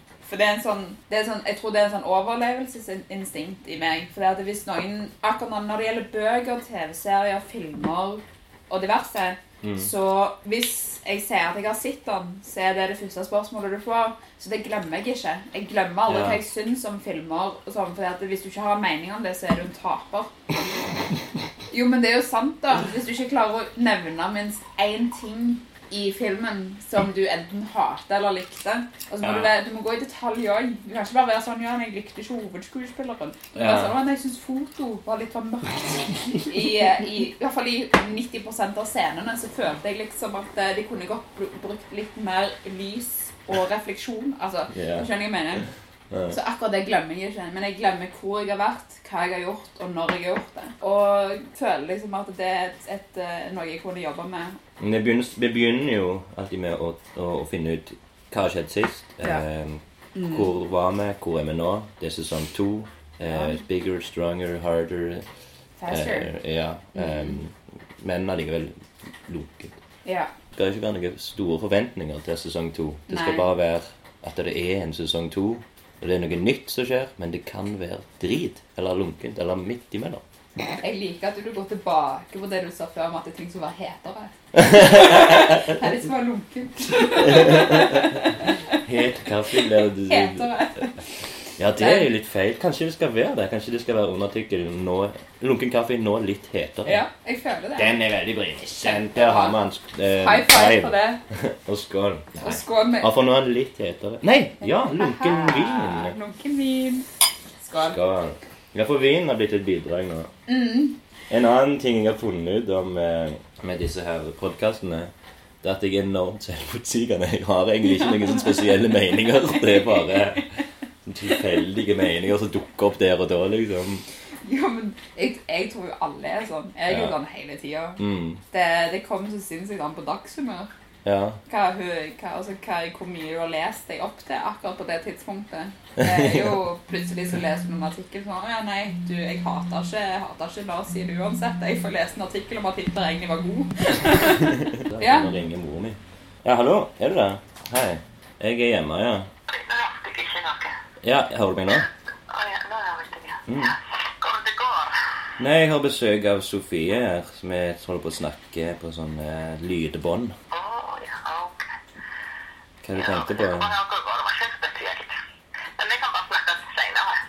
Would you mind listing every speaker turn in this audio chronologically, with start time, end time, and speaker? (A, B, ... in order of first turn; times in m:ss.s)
0:00.2-0:20.3 A
0:09.6-0:09.9 B
0:16.1-0:16.4 B
0:21.7-0:45.7 A
0:29.2-0:29.5 B
0:33.5-0:34.0 B
0:44.7-0:45.1 B
0:46.1-0:46.4 B
0:46.3-0:54.6 A
0:54.8-1:05.3 B
1:00.1-1:00.5 A
1:03.3-1:03.6 A
1:05.8-1:06.3 A
1:05.9-1:09.8 B
1:06.9-1:07.4 A
1:10.0-1:10.3 A
1:10.5-1:20.2 B
1:13.1-1:13.5 A
1:20.7-1:28.8 A
1:24.6-1:25.8 B
1:27.2-1:30.6 B
1:29.5-1:31.1 A
1:31.6-1:37.0 B
1:31.8-1:32.1 A
1:36.8-1:37.9 A
1:37.7-1:46.1 B
1:38.8-1:39.6 A
1:40.2-1:41.2 A
1:42.4-1:43.1 A
1:44.6-1:48.0 A
1:47.8-1:50.3 B
1:50.5-1:51.0 A
1:51.3-2:00.5 B
1:58.0-1:58.5 A
1:59.4-2:00.6 A
2:01.0-2:04.0 B
2:04.4-2:08.0 A
2:06.9-2:07.1 B
2:08.0-2:08.4 B
2:08.5-2:10.7 A
2:11.0-2:11.4 B
2:11.4-2:25.3 A
2:16.0-2:16.6 B
2:24.2-2:29.3 B
2:29.5-2:30.7 C
2:31.0-2:31.9 B
2:32.3-2:35.1 C
2:33.4-2:33.7 B
2:35.4-2:40.4 B
2:40.5-2:41.6 C
2:42.8-2:43.7 B
2:42.9-2:45.1 C
2:45.8-2:47.1 C